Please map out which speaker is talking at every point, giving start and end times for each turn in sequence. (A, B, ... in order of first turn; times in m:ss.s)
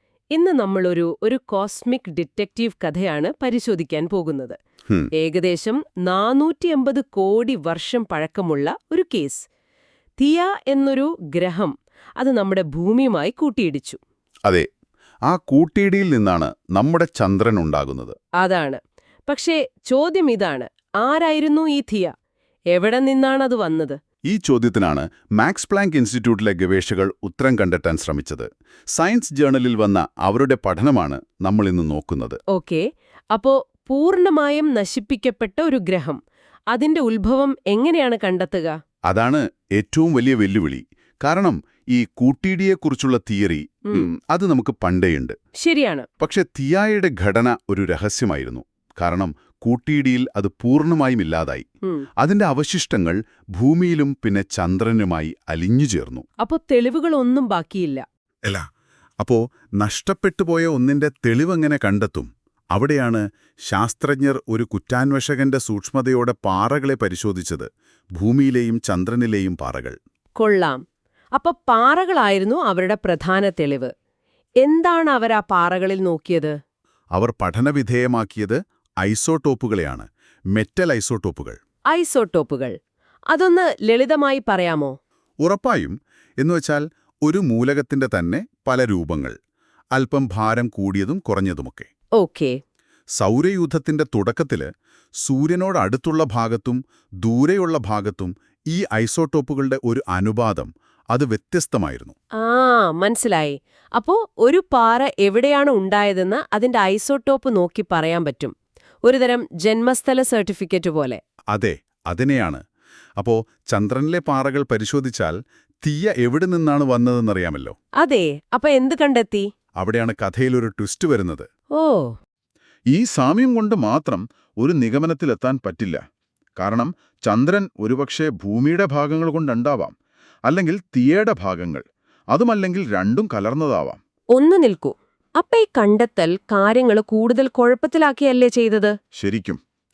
0:00.3-0:04.6 A
0:05.2-0:09.5 A
0:10.2-0:14.0 A
0:15.3-0:18.2 B
0:18.4-0:22.1 A
0:22.7-0:24.0 A
0:24.3-0:32.4 B
0:32.5-0:36.2 A
0:36.7-0:38.8 A
0:39.1-0:45.4 B
0:45.6-0:46.1 A
0:46.2-0:51.6 B
0:52.2-0:56.2 B
0:56.4-0:58.0 A
0:59.2-1:10.0 B
1:10.4-1:10.8 A
1:11.4-1:13.9 A
1:14.6-1:16.6 A
1:17.2-1:21.6 B
1:21.9-1:22.8 A
1:23.3-1:25.0 A
1:25.4-1:29.4 B
1:30.0-1:31.9 B
1:32.2-1:32.6 A
1:33.2-1:34.7 B
1:35.2-1:42.2 B
1:42.4-1:48.5 A
1:49.0-1:51.2 A
1:51.5-1:52.6 B
1:53.2-1:57.8 B
1:58.0-1:59.5 A
1:59.8-2:01.5 B
2:01.8-2:02.2 A
2:02.9-2:06.0 B
2:06.6-2:10.0 B
2:10.5-2:14.0 B
2:14.4-2:19.0 A
2:19.2-2:19.6 B